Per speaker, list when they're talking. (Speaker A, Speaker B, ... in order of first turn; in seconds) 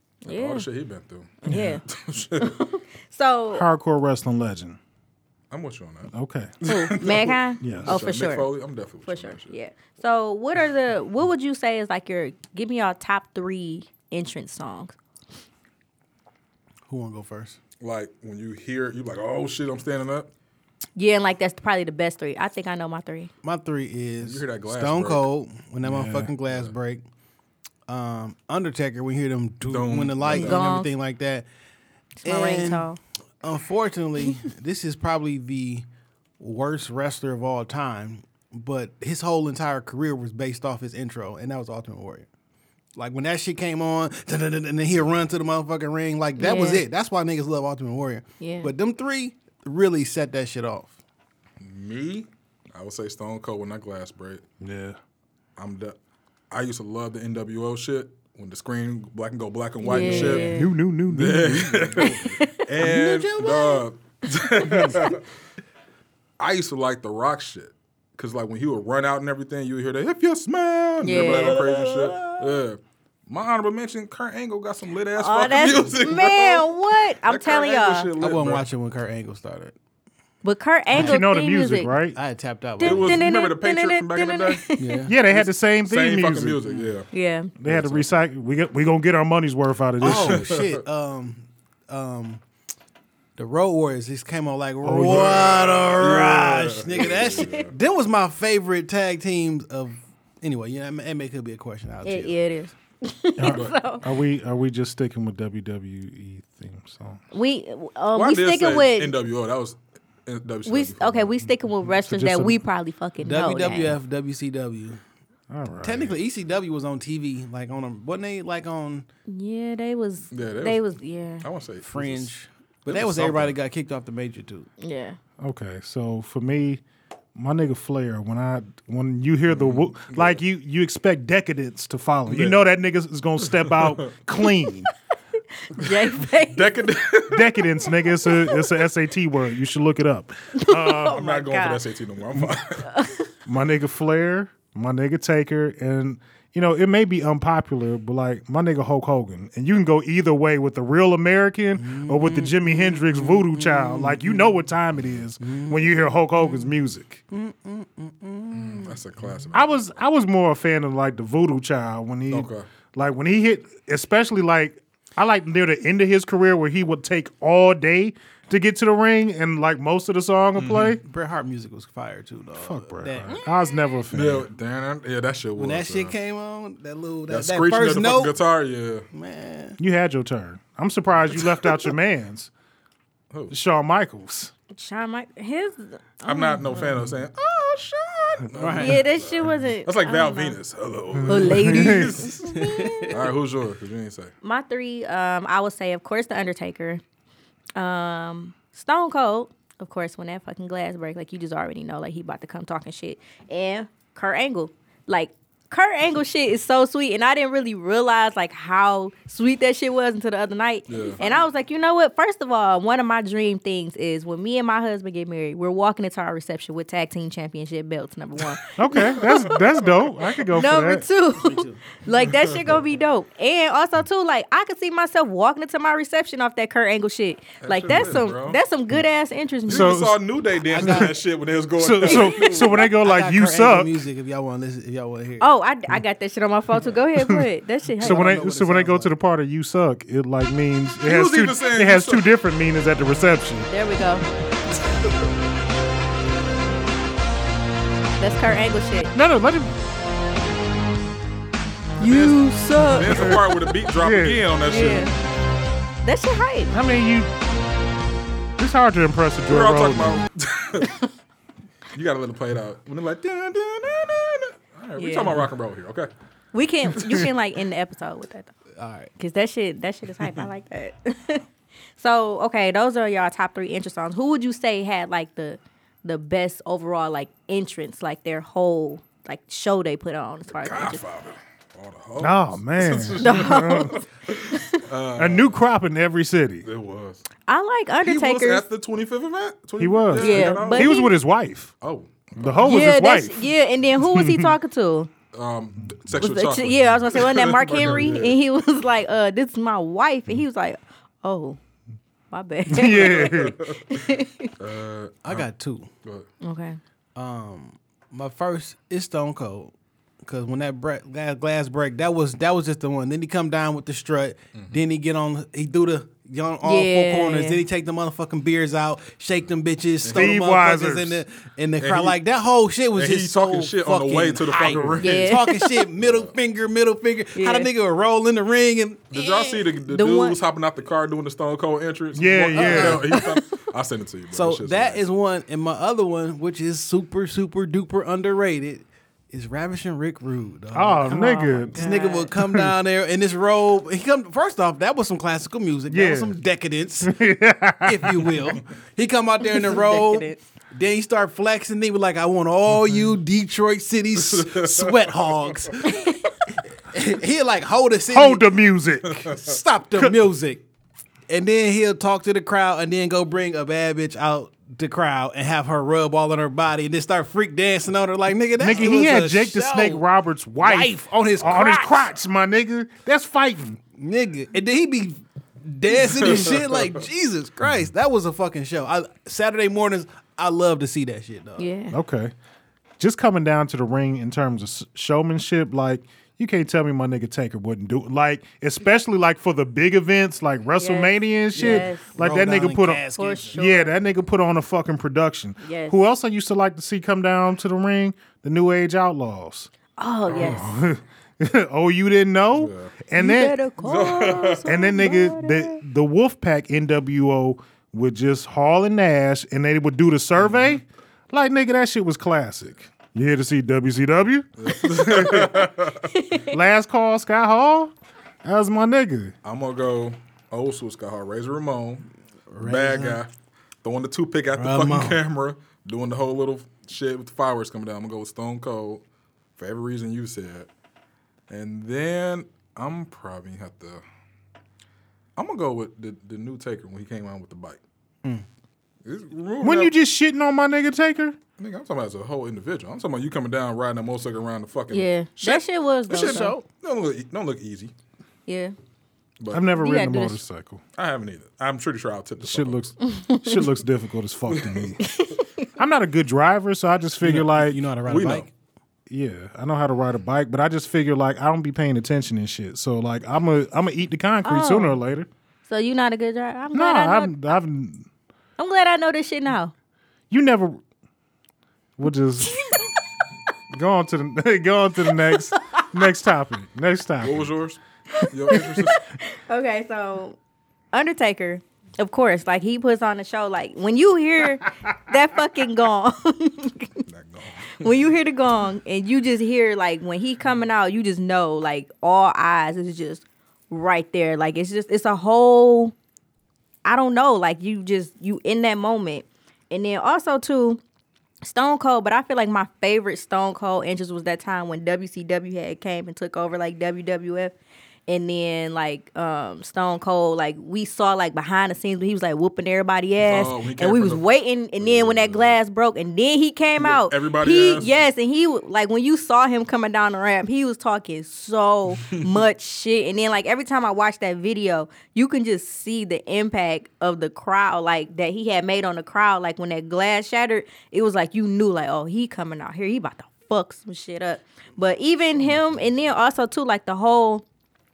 Speaker A: 0.2-0.7, 1.4-1.8, 2.4-3.6, 6.7-8.5, 9.1-14.9, 20.9-23.3, 30.3-30.9, 32.2-33.0, 46.4-46.8, 48.4-48.7, 59.8-60.7, 62.0-62.6, 71.0-71.6, 75.2-78.1, 80.4-81.9, 82.8-85.0, 87.1-87.5, 102.0-104.0, 107.3-109.1, 110.7-114.0, 119.3-121.5, 124.8-125.2, 135.7-136.7, 140.6-141.8, 142.8-143.3, 184.7-186.9, 188.8-190.6, 191.3-193.1, 194.4-197.0, 197.8-219.8, 220.5-229.9, 235.4-238.3, 243.7-244.2, 248.2-249.1, 252.0-253.5, 254.7-255.1, 256.0-256.7, 265.0-265.4, 266.5-268.5, 269.2-271.4, 272.0-281.0, 283.2-284.8, 287.5-288.6, 290.1-291.1, 292.6-295.1, 296.1-301.6, 302.3-304.5, 306.4-306.8, 316.6-317.6, 325.0-325.7, 327.4-327.7, 329.2-330.4, 333.0-333.4, 341.1-342.3, 349.5-350.4, 355.9-356.2, 381.6-381.9, 390.8-392.1, 393.1-394.0, 395.6-396.0, 400.0-400.7, 403.1-405.8, 416.1-416.5, 444.9-446.5, 448.5-448.7, 449.7-450.4, 453.1-453.6, 455.0-455.7, 464.4-465.0, 465.7-467.4, 468.6-469.7, 472.4-472.9, 475.1-475.8, 478.1-480.4, 480.9-487.0, 487.8-495.9, 496.9-500.8, 501.4-507.5, 508.1-537.4
Speaker B: 0.3-2.6, 5.5-9.6, 17.8-20.3, 24.2-25.3, 26.5-26.7, 29.6-30.6, 51.6-54.4, 55.6-56.0, 56.5-60.5, 61.1-65.2, 66.4-78.7, 82.8-84.7, 85.3-87.1, 87.6-88.2, 90.0-90.8, 95.1-97.7, 103.5-103.8, 108.1-111.3, 120.3-122.3, 122.9-123.6, 129.5-130.4, 132.3-132.6, 133.4-134.1, 136.4-137.7, 141.1-142.9, 158.5-159.8, 162.3-162.7, 170.6-171.0, 174.1-176.2, 177.3-179.1, 186.3-194.3, 210.9-211.2, 222.2-222.7, 227.6-228.6, 229.7-232.9, 241.0-242.3, 252.0-255.1, 259.5-260.9, 261.9-266.1, 267.0-267.3, 280.5-285.6, 286.6-287.2, 288.0-291.0, 291.8-292.8, 295.3-298.4, 302.9-304.0, 304.6-305.5, 320.0-320.4, 321.8-322.2, 322.9-325.2, 326.0-326.3, 329.1-335.0, 354.3-355.0, 376.1-376.9, 400.3-400.6, 402.5-402.9, 403.8-404.6, 410.4-410.8, 414.6-416.1, 419.4-422.1, 422.6-423.3, 423.8-429.0, 429.6-430.7, 431.5-434.0, 435.4-437.8, 439.1-439.9, 441.6-447.9, 450.9-452.9, 454.5-454.9, 458.1-458.5, 477.2-479.0, 487.1-488.1, 513.2-514.2, 514.8-515.6, 516.8-517.9
Speaker C: 1.5-1.8, 3.5-4.8, 6.1-6.5, 7.6-8.0, 25.9-26.3, 54.6-55.0, 60.0-62.2, 80.9-82.2, 85.1-86.6, 87.6-90.5, 94.8-95.4, 103.4-107.2, 112.0-112.6, 115.5-116.2, 125.4-126.8, 127.3-134.9, 137.3-141.2, 143.5-157.2, 159.5-171.0, 172.6-174.5, 179.8-182.5, 183.5-184.5, 191.1-192.3, 218.8-221.1, 229.7-230.2, 230.8-231.1, 231.8-233.9, 237.2-237.5, 238.0-243.7, 249.1-249.7, 252.8-254.5, 256.7-257.3, 258.6-260.2, 282.2-283.9, 285.1-286.6, 289.8-291.7, 292.4-294.5, 302.7-303.6, 320.1-321.2, 332.1-333.1, 340.7-341.9, 342.4-342.7, 345.9-346.4, 347.0-348.4, 358.1-359.3, 368.6-373.8, 381.9-382.3, 383.0-399.7, 400.3-403.6, 404.6-415.7, 416.5-417.9, 418.4-419.3, 439.6-441.4, 449.5-450.8, 452.4-455.0, 455.8-457.8, 459.1-465.3, 466.7-468.1, 470.3-470.8, 472.0-472.6, 473.7-477.5
Speaker D: 16.9-17.6, 23.4-27.1, 27.9-31.4, 32.2-32.9, 33.4-35.9, 36.4-42.3, 42.9-51.0, 59.9-60.5, 62.8-63.9, 71.2-72.6, 78.2-79.8, 82.1-83.3, 84.8-85.2, 90.0-92.4, 93.4-102.4, 113.2-115.0, 115.8-119.1, 121.8-124.7, 151.8-154.6, 155.4-156.6, 157.3-159.5, 171.0-173.5, 175.6-178.4, 179.1-179.8, 188.6-189.0, 192.5-193.2, 221.4-221.8, 230.7-231.1, 232.0-235.5, 238.0-239.1, 268.8-269.1, 305.2-305.9, 307.1-329.1, 332.5-333.0, 334.3-347.2, 347.8-356.1, 356.8-358.5, 359.3-360.6, 361.3-370.0, 370.6-372.1, 374.0-381.7, 391.5-393.6, 422.5-423.2, 424.5-425.2, 446.2-446.6, 457.2-458.5